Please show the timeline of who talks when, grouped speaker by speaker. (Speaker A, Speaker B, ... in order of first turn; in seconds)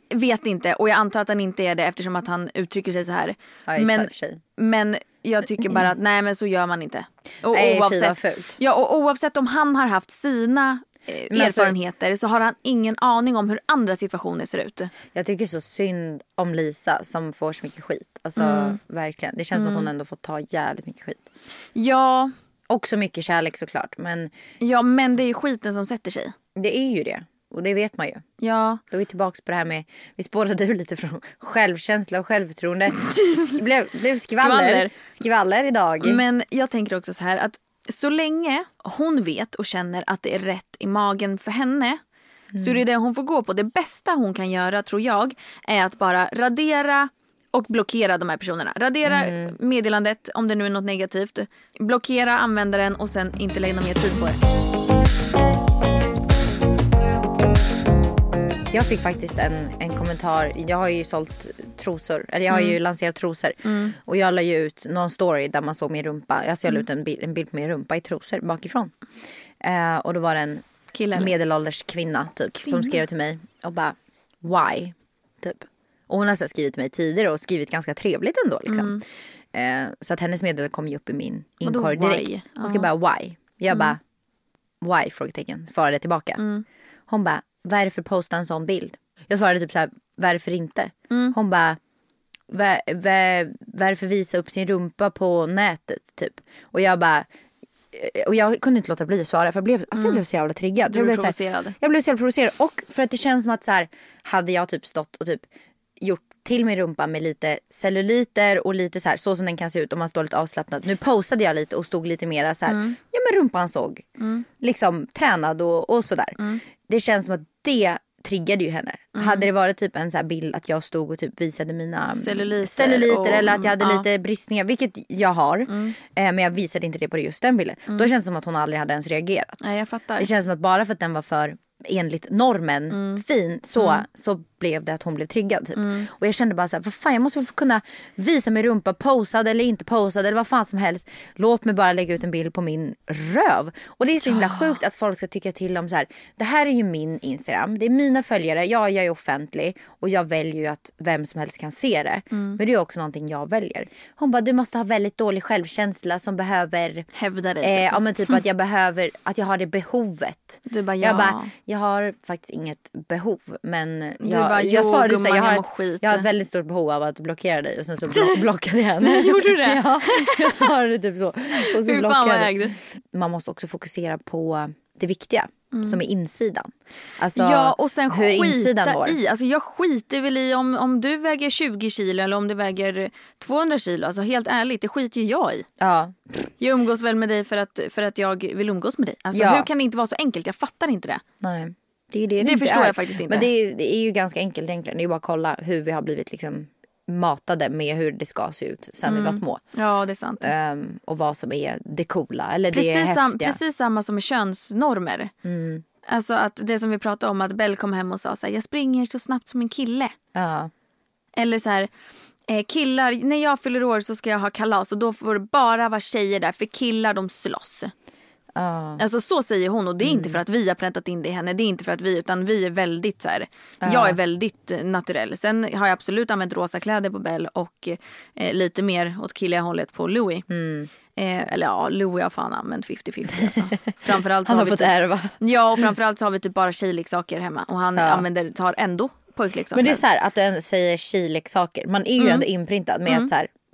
Speaker A: 0.1-14.9, 18.4-18.8, 19.5-19.9, 21.7-22.3, 24.6-26.3, 28.4-28.8, 33.0-33.6, 34.4-34.9, 36.0-42.0, 42.6-54.4, 62.5-62.8, 63.6-63.9, 70.9-71.3, 72.6-72.9, 78.7-79.0, 81.6-82.9, 83.7-83.9, 86.4-86.6, 91.1-91.3, 99.9-100.2, 100.8-101.8, 112.7-113.0, 114.2-114.5, 116.4-116.6, 119.1-119.5, 122.1-124.0, 125.7-126.0, 129.6-130.3, 132.9-133.2, 133.8-134.0, 135.8-136.1, 144.2-144.7, 152.3-152.6, 157.1-158.0, 160.7-161.5, 164.2-166.3, 168.1-168.4, 169.0-170.7, 171.6-172.8, 175.7-176.0, 177.3-185.7, 186.6-191.2, 192.4-193.5, 199.1-200.5, 202.7-205.3, 206.1-210.1, 211.3-211.9, 212.5-217.9, 219.0-230.5, 231.2-240.0, 242.2-242.4
Speaker B: 3.7-4.4, 5.5-5.9, 7.5-8.6, 11.3-11.7, 15.1-21.2, 22.7-24.3, 26.6-28.2, 28.9-36.2, 42.5-42.8, 49.0-49.5, 58.7-68.9, 69.6-84.0, 84.8-86.4, 87.1-91.8, 92.5-97.3, 97.9-105.5, 106.0-114.0, 114.6-129.6, 130.2-157.1, 157.6-179.2, 185.8-186.5, 189.3-189.7, 191.4-199.6, 200.4-203.6, 205.4-205.8, 210.3-210.7, 218.5-219.0, 220.0-220.4, 223.8-224.2, 230.5-230.9, 233.4-233.8, 234.4-235.3, 237.9-238.2, 239.7-243.5